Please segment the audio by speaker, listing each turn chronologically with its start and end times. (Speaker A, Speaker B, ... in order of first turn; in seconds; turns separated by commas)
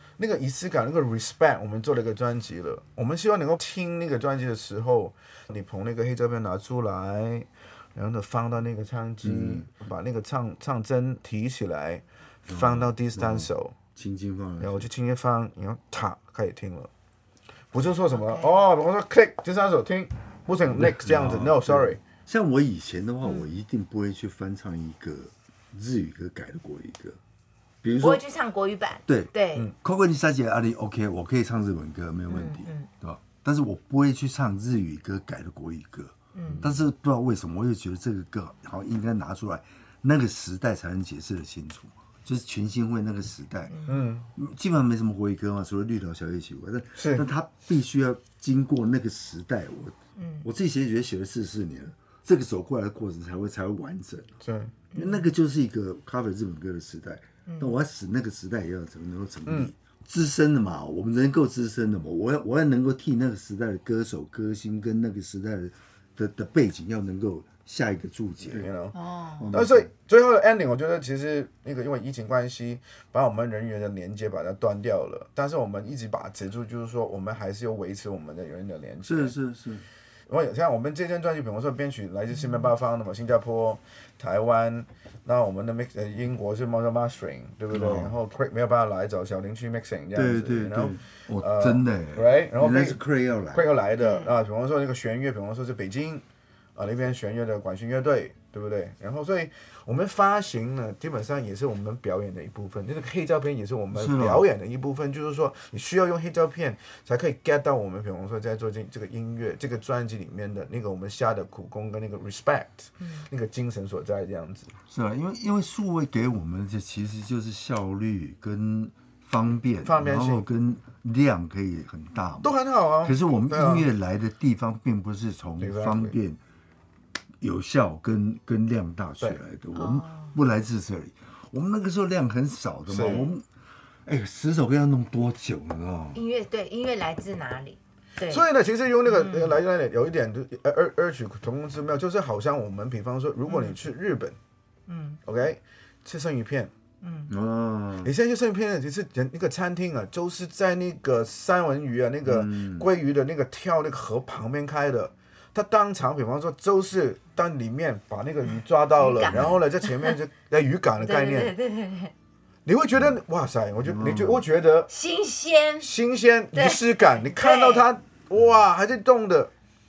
Speaker A: 0.2-13.8, Speaker B: 9.2-9.7, Speaker B: 12.5-14.9, Speaker A: 14.6-16.9, Speaker A: 17.7-22.0, Speaker C: 18.1-18.6, Speaker B: 20.7-27.2, Speaker B: 27.8-28.2, Speaker C: 28.0-29.7, Speaker B: 29.1-43.8, Speaker C: 32.3-32.9, Speaker C: 36.3-36.6, Speaker C: 43.7-44.0, Speaker A: 43.9-44.3, Speaker B: 44.3-54.3, Speaker A: 47.0-47.3, Speaker C: 50.2-50.5, Speaker A: 54.4-54.7, Speaker C: 54.9-55.3, Speaker B: 54.9-68.7, Speaker C: 57.5-57.8, Speaker A: 68.5-69.0, Speaker C: 68.9-69.5, Speaker B: 69.4-69.9, Speaker A: 69.5-79.3, Speaker B: 79.0-79.8, Speaker A: 80.3-93.0, Speaker B: 87.7-88.1, Speaker B: 90.1-93.7, Speaker A: 93.5-96.2, Speaker C: 94.0-94.3, Speaker A: 96.8-114.7, Speaker B: 103.9-104.4, Speaker C: 113.0-113.2, Speaker B: 114.9-126.4, Speaker A: 119.8-120.5, Speaker A: 122.4-123.9, Speaker A: 125.6-126.2, Speaker B: 127.4-133.4, Speaker C: 129.7-130.3, Speaker A: 132.9-133.3, Speaker B: 134.1-136.2, Speaker C: 136.1-138.4, Speaker A: 138.3-144.4, Speaker C: 139.1-139.6, Speaker C: 143.5-143.8, Speaker C: 144.9-145.2, Speaker A: 145.2-146.7, Speaker C: 147.0-147.3, Speaker B: 147.3-148.1, Speaker A: 148.0-161.5, Speaker B: 152.2-152.9, Speaker C: 159.0-160.2, Speaker B: 159.3-159.6, Speaker C: 161.0-162.1, Speaker A: 162.7-164.9, Speaker B: 163.8-164.4, Speaker C: 164.9-165.9, Speaker A: 165.8-169.5, Speaker C: 166.5-167.9